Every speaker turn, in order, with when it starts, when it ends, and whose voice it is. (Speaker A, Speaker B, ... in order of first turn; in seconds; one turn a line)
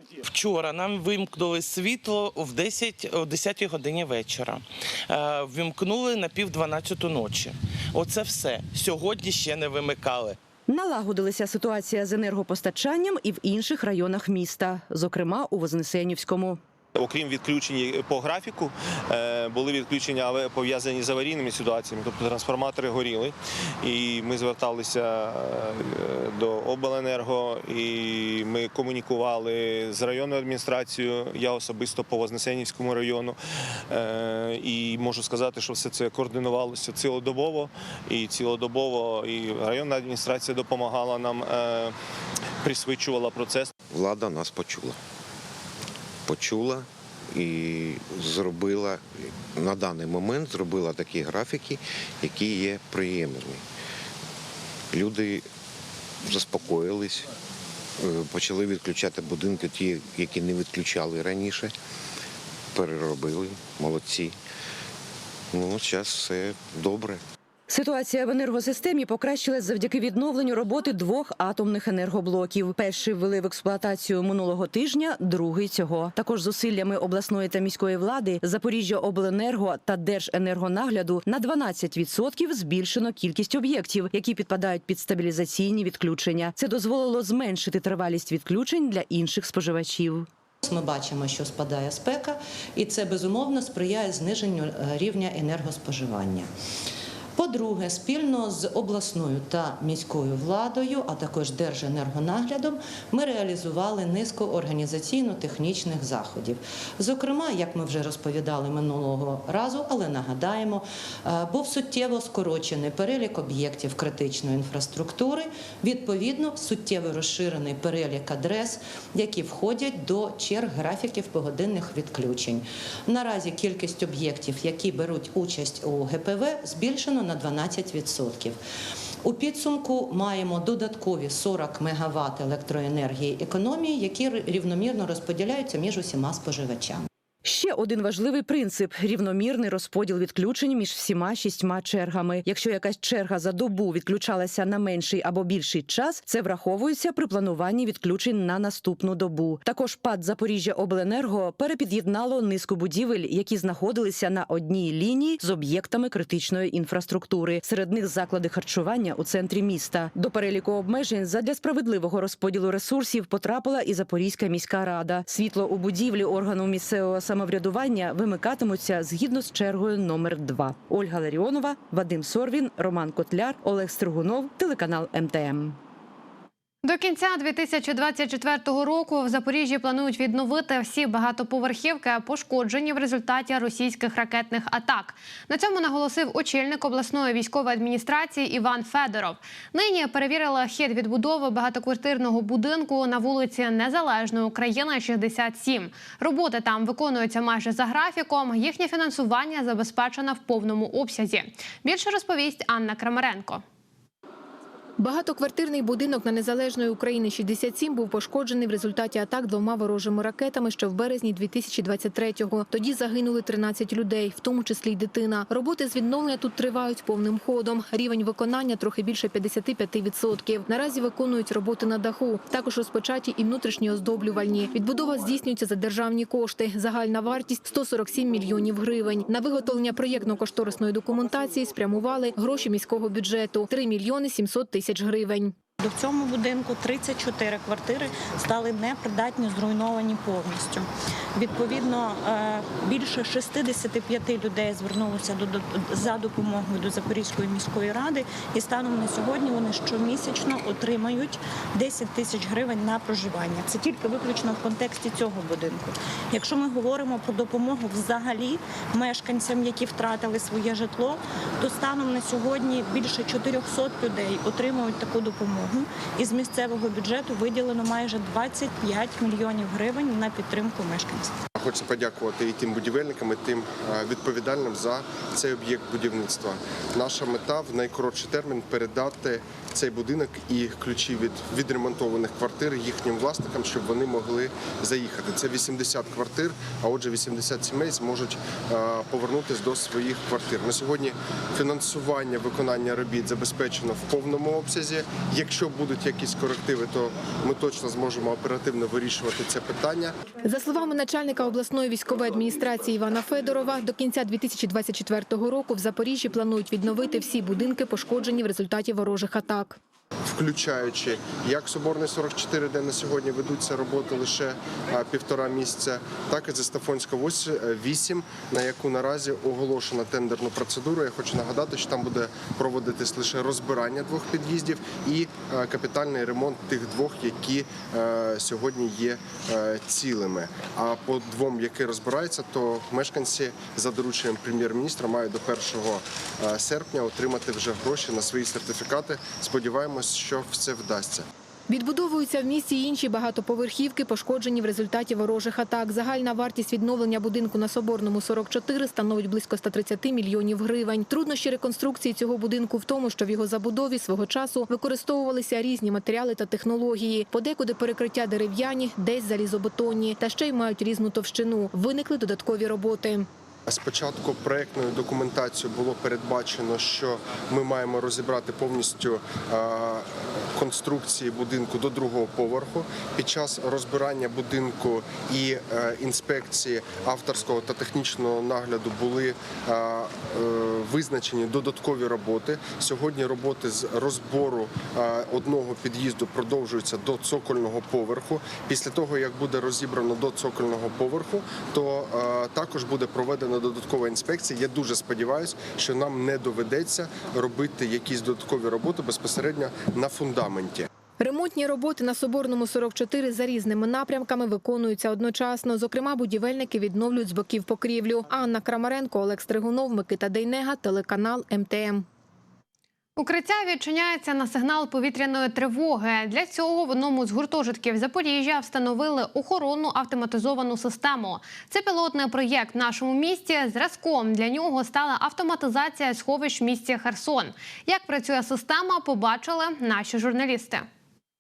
Speaker A: 0.2-10.4
Speaker B: 10.7-16.6
Speaker C: 17.0-33.4
Speaker C: 33.9-42.0
Speaker C: 42.6-43.7
Speaker D: 43.9-45.0
Speaker D: 46.3-53.6
Speaker D: 54.9-55.5
Speaker D: 56.2-57.3
Speaker D: 58.0-61.7
Speaker D: 62.7-64.4
Speaker D: 65.5-67.2
Speaker B: 67.7-90.3
Speaker E: 90.6-96.5
Speaker E: 97.4-128.6
Speaker E: 129.2-137.1
Speaker B: 137.4-175.8
Speaker F: 176.8-203.6
Speaker G: 205.0-235.5
Speaker H: 235.8-271.3
Speaker I: 271.6-300.1
Speaker G: 300.4-309.8
Speaker I: 310.3-341.3
Speaker G: 341.7-363.3
Speaker I: 363.7-400.9
Speaker G: 401.2-412.1
Speaker F: 413.2-430.9